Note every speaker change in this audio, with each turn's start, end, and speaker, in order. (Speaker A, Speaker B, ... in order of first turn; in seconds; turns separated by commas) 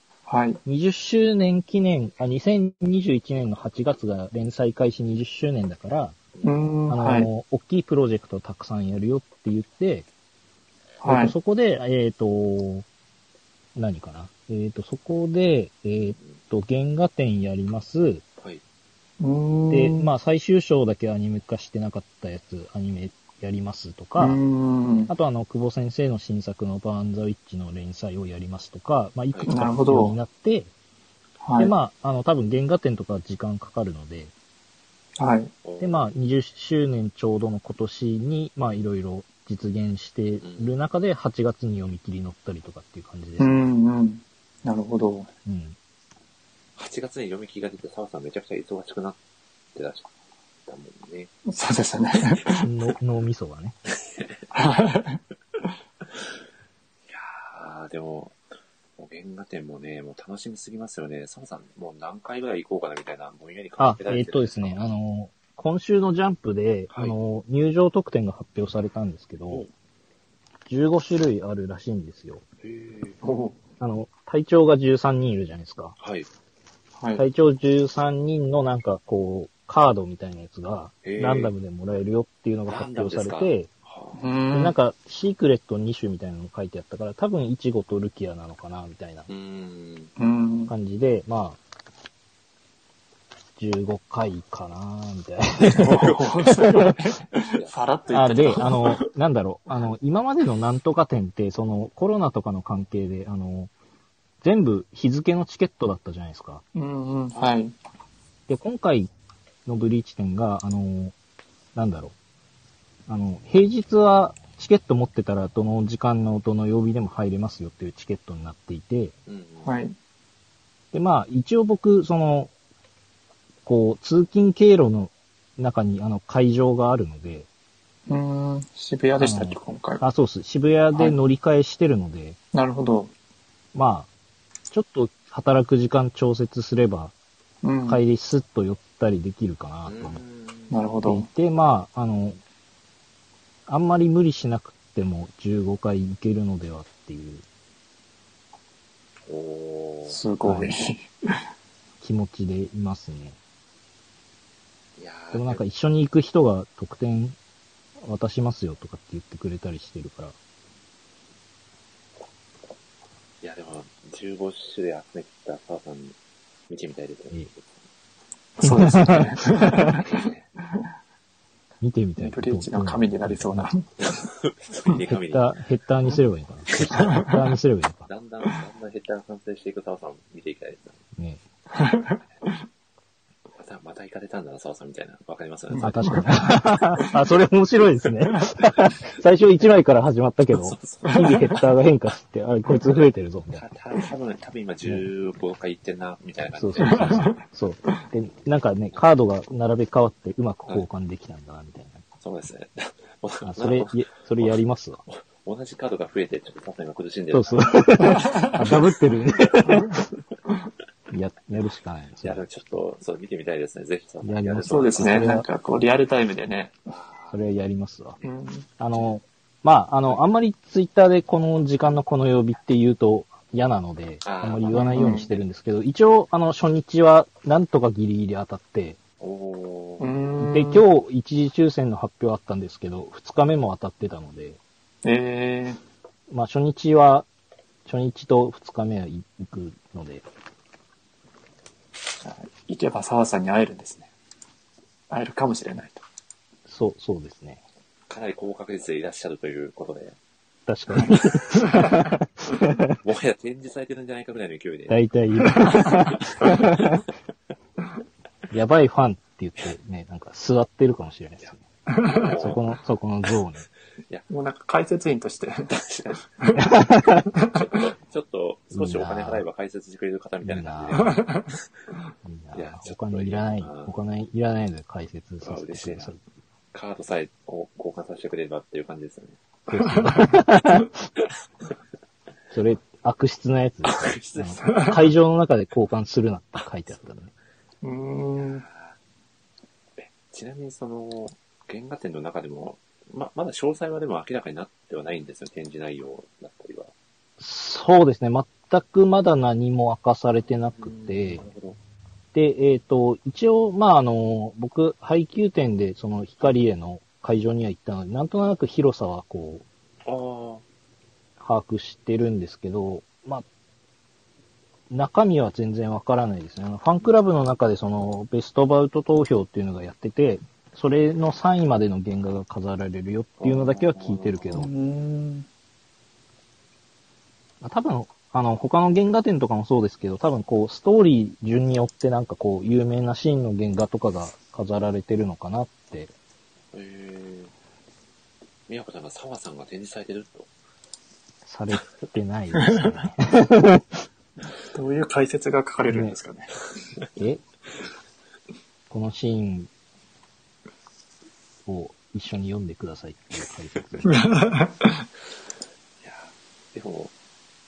Speaker A: 0.3-0.6, Speaker B: 0.7-6.2, Speaker A: 6.4-7.3, Speaker B: 6.9-10.1, Speaker A: 11.0-11.3, Speaker B: 11.1-12.9, Speaker B: 13.7-18.2, Speaker A: 19.2-20.1, Speaker B: 19.7-24.4, Speaker A: 24.2-25.1, Speaker B: 25.1-30.7, Speaker A: 29.5-30.2, Speaker A: 31.4-31.7, Speaker B: 31.6-34.3, Speaker A: 35.2-35.5, Speaker C: 35.6-36.1, Speaker B: 35.8-43.6, Speaker C: 40.4-40.7, Speaker A: 43.4-45.3, Speaker B: 45.5-45.8, Speaker C: 46.8-49.2, Speaker C: 49.7-50.1, Speaker C: 50.7-51.3, Speaker A: 51.5-52.7, Speaker B: 52.6-53.8, Speaker C: 53.9-54.4, Speaker A: 54.5-55.2, Speaker C: 57.1-58.4, Speaker C: 59.0-64.9, Speaker B: 63.8-69.6, Speaker C: 66.9-67.2, Speaker B: 70.7-72.4, Speaker C: 72.6-73.2, Speaker A: 73.2-73.6, Speaker B: 73.8-76.0, Speaker C: 76.0-76.3, Speaker A: 77.0-77.2, Speaker B: 77.2-83.7, Speaker C: 81.0-81.5, Speaker C: 82.7-84.2, Speaker A: 84.2-84.8, Speaker B: 84.5-89.3, Speaker C: 89.3-90.1, Speaker A: 90.2-90.7, Speaker B: 90.7-91.6, Speaker B: 93.6-96.1, Speaker A: 95.6-99.1, Speaker C: 97.5-97.8, Speaker B: 98.1-103.7, Speaker B: 104.4-106.6, Speaker A: 106.7-107.7, Speaker B: 108.5-109.1, Speaker B: 109.7-111.1, Speaker B: 111.7-112.2, Speaker B: 113.1-119.1, Speaker C: 119.3-119.7, Speaker A: 119.6-120.0, Speaker B: 120.9-122.5, Speaker B: 123.7-127.5, Speaker A: 128.1-130.0, Speaker B: 129.2-132.4, Speaker A: 132.5-133.1, Speaker B: 133.7-134.1, Speaker B: 134.7-137.1, Speaker A: 137.6-138.0, Speaker B: 137.9-140.2, Speaker C: 139.9-140.8, Speaker A: 140.7-141.3, Speaker B: 141.1-142.4, Speaker B: 143.7-147.4, Speaker C: 149.3-150.2, Speaker A: 150.1-151.1, Speaker B: 150.4-150.7, Speaker B: 152.0-153.4, Speaker C: 155.0-155.6, Speaker B: 155.3-157.4, Speaker B: 158.0-160.3, Speaker C: 163.4-166.2, Speaker C: 166.7-167.8, Speaker A: 168.6-170.1, Speaker B: 168.6-170.0, Speaker C: 169.9-170.5, Speaker B: 171.8-173.7, Speaker A: 172.2-173.9, Speaker C: 174.0-175.5, Speaker B: 175.1-178.1, Speaker C: 176.7-177.0, Speaker A: 176.9-177.3, Speaker C: 178.1-181.0, Speaker B: 181.2-181.4, Speaker A: 181.7-182.2, Speaker C: 183.6-186.3, Speaker A: 185.8-186.3, Speaker B: 185.8-193.7, Speaker C: 190.5-191.6, Speaker C: 192.8-197.4, Speaker B: 196.5-202.0, Speaker A: 196.8-197.4, Speaker C: 202.2-208.3, Speaker B: 203.4-205.0, Speaker B: 207.3-209.9, Speaker A: 208.2-208.5, Speaker B: 211.1-212.4, Speaker C: 212.2-215.3, Speaker B: 214.2-215.4, Speaker A: 214.7-216.8, Speaker C: 216.9-217.4, Speaker B: 217.3-218.2, Speaker A: 218.2-218.7, Speaker B: 218.8-229.0, Speaker C: 224.2-225.1, Speaker A: 224.7-225.3, Speaker C: 229.2-230.1, Speaker A: 230.0-230.9, Speaker B: 230.4-234.6, Speaker A: 235.0-235.8, Speaker B: 236.3-237.3, Speaker B: 237.9-240.2, Speaker A: 242.2-244.1, Speaker A: 245.1-246.0, Speaker B: 246.7-247.6, Speaker C: 248.1-250.2, Speaker B: 250.7-253.0, Speaker C: 251.1-251.6, Speaker C: 253.0-255.0, Speaker B: 254.9-257.0, Speaker C: 255.7-257.0, Speaker B: 258.5-261.6, Speaker C: 261.4-262.7, Speaker A: 261.9-262.4, Speaker B: 262.4-263.6, Speaker A: 264.3-265.8, Speaker C: 265.7-266.2, Speaker A: 266.4-266.6, Speaker B: 266.6-267.2, Speaker C: 267.5-271.4, Speaker B: 268.7-269.4, Speaker B: 270.4-271.2, Speaker A: 271.0-271.4, Speaker B: 272.2-276.2, Speaker C: 272.5-273.9, Speaker C: 275.4-276.1, Speaker C: 276.7-279.4, Speaker B: 279.7-280.9, Speaker A: 279.8-280.2, Speaker B: 282.5-287.3, Speaker C: 283.9-284.9, Speaker A: 284.6-285.0, Speaker A: 287.8-288.6, Speaker C: 288.4-289.0, Speaker C: 290.0-296.9, Speaker B: 297.4-301.4, Speaker C: 300.8-301.8, Speaker B: 302.3-309.6, Speaker C: 310.0-310.6, Speaker B: 311.4-313.4, Speaker B: 314.9-324.7, Speaker C: 323.4-324.7, Speaker A: 324.5-325.5, Speaker B: 327.6-336.1, Speaker C: 336.7-337.5, Speaker C: 338.7-340.5, Speaker B: 341.4-344.0, Speaker A: 342.6-342.9, Speaker A: 344.7-346.5, Speaker B: 345.9-346.1, Speaker B: 347.1-347.4, Speaker B: 348.9-349.7, Speaker B: 351.6-354.2, Speaker A: 354.0-355.1, Speaker C: 356.0-357.1